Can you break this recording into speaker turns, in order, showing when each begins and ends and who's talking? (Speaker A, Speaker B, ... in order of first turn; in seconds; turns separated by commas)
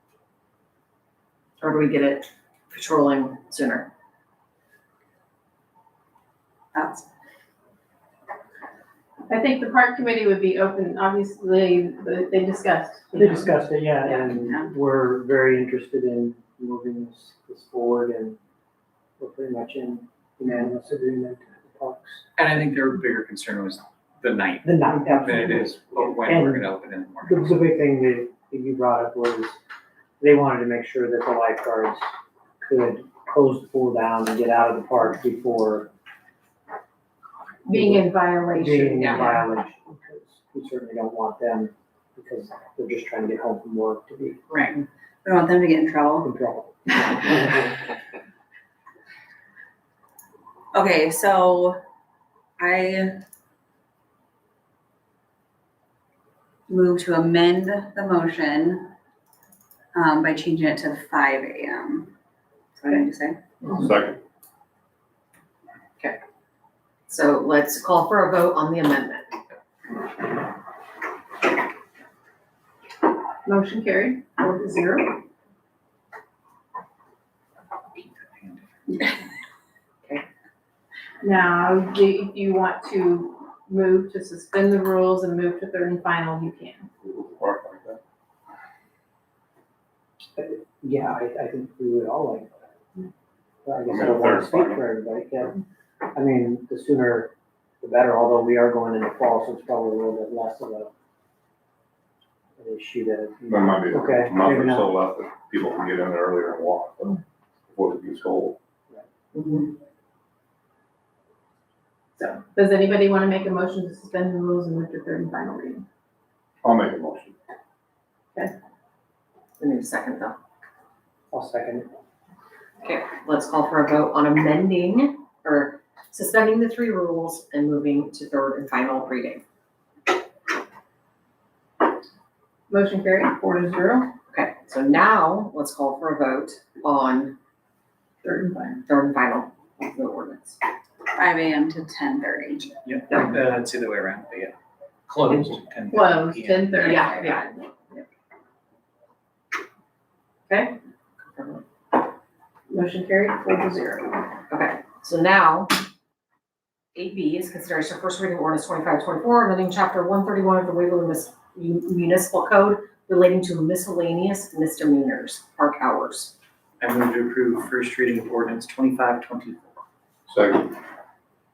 Speaker A: 1.6-3.9, Speaker B: 6.7-7.1, Speaker C: 9.3-13.5, Speaker D: 13.2-18.4, Speaker B: 14.0-14.7, Speaker D: 19.2-22.2, Speaker E: 22.4-27.6, Speaker D: 24.6-29.5, Speaker D: 30.2-32.0, Speaker D: 32.6-35.9, Speaker C: 37.6-39.5, Speaker D: 37.7-44.4, Speaker B: 44.5-46.3, Speaker D: 46.2-47.8, Speaker B: 50.7-51.8, Speaker B: 52.6-53.2, Speaker B: 56.7-58.9, Speaker B: 59.9-62.1, Speaker B: 62.7-63.4, Speaker F: 63.7-64.2, Speaker A: 67.1-69.4, Speaker C: 73.4-75.2, Speaker E: 78.0-78.6, Speaker C: 81.2-86.9, Speaker F: 87.0-88.0, Speaker D: 90.3-92.5, Speaker D: 93.6-95.5, Speaker F: 93.9-94.8, Speaker D: 96.1-100.9, Speaker D: 102.6-104.9, Speaker F: 103.5-107.2, Speaker F: 107.7-108.6, Speaker A: 109.3-109.7, Speaker C: 112.2-115.8, Speaker F: 116.6-117.3, Speaker A: 119.6-120.4, Speaker D: 121.3-121.9, Speaker A: 122.8-129.4, Speaker C: 132.7-134.1, Speaker A: 134.3-137.3, Speaker C: 138.2-138.8, Speaker A: 138.8-140.6, Speaker B: 141.1-142.7, Speaker E: 142.8-144.5, Speaker E: 145.1-147.1, Speaker C: 145.9-148.0, Speaker A: 146.8-147.5, Speaker A: 150.5-150.7, Speaker A: 151.3-151.6, Speaker C: 152.7-154.3, Speaker A: 154.5-155.8, Speaker A: 156.9-166.3, Speaker E: 166.8-169.8, Speaker F: 170.3-170.7